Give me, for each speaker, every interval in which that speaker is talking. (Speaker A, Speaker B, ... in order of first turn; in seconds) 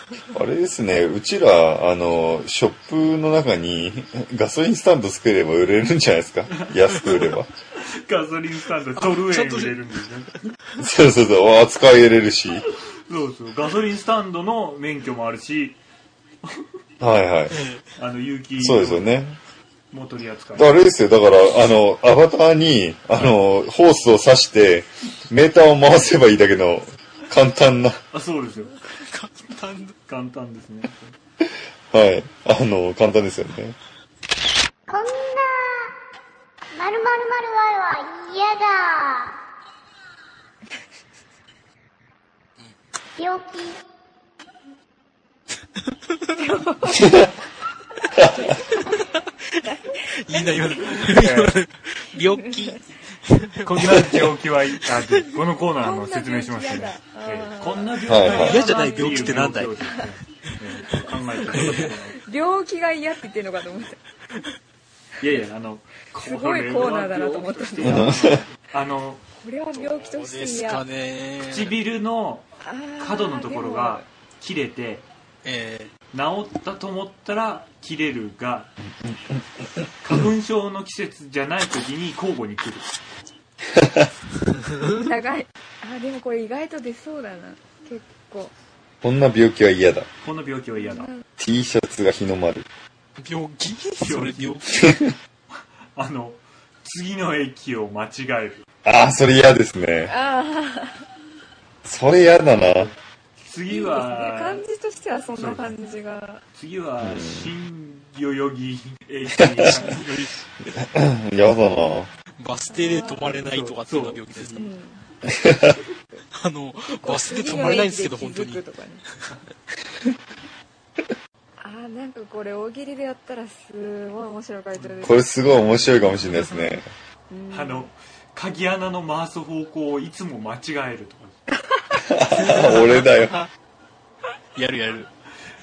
Speaker A: 0.3-7.5, 10.8-12.7, 17.0-17.6, 18.6-19.4, 20.6-28.0, 31.5-33.8, 48.2-48.5, 58.1-58.5, 67.8-68.4, 83.7-84.1, 89.0-90.1, 91.4-92.7, 94.7-95.2, 98.8-100.2, 101.8-102.9, 107.0-107.5, 109.4-109.8, 110.6-112.1, 115.2-115.8, 125.0-126.9, 132.0-133.5
Speaker B: 6.5-10.3, 13.1-15.8, 18.0-19.1, 19.9-20.8, 28.1-28.8, 30.1-31.1, 51.0-51.6, 53.6-62.2, 65.2-69.2, 71.5-72.5, 73.0-75.1, 76.1-78.7, 80.0-82.9, 90.2-91.1, 94.0-94.7, 96.0-98.7, 103.4-104.6, 105.4-105.7, 106.5-110.2, 113.2-114.7, 127.5-131.4
Speaker C: 9.0-9.8, 17.5-17.8, 29.0-30.0, 49.1-54.4, 54.9-55.2, 58.2-59.8, 61.4-62.0, 69.7-71.8, 75.4-75.9, 93.2-94.9, 109.7-110.3, 112.4-114.6, 116.3-118.6, 132.3-133.5, 134.6-135.1
Speaker D: 34.9-35.9, 36.7-39.4, 43.2-43.8
Speaker E: 46.4-47.2, 48.2-51.1, 52.3-52.8, 55.7-60.1, 62.2-64.0, 66.2-68.4, 69.4-70.8, 72.6-74.0, 84.8-88.5, 90.8-91.3, 100.0-101.0, 103.7-106.4, 112.7-113.3, 114.5-115.0, 116.8-119.0, 121.6-125.5, 127.3-127.9, 131.7-132.0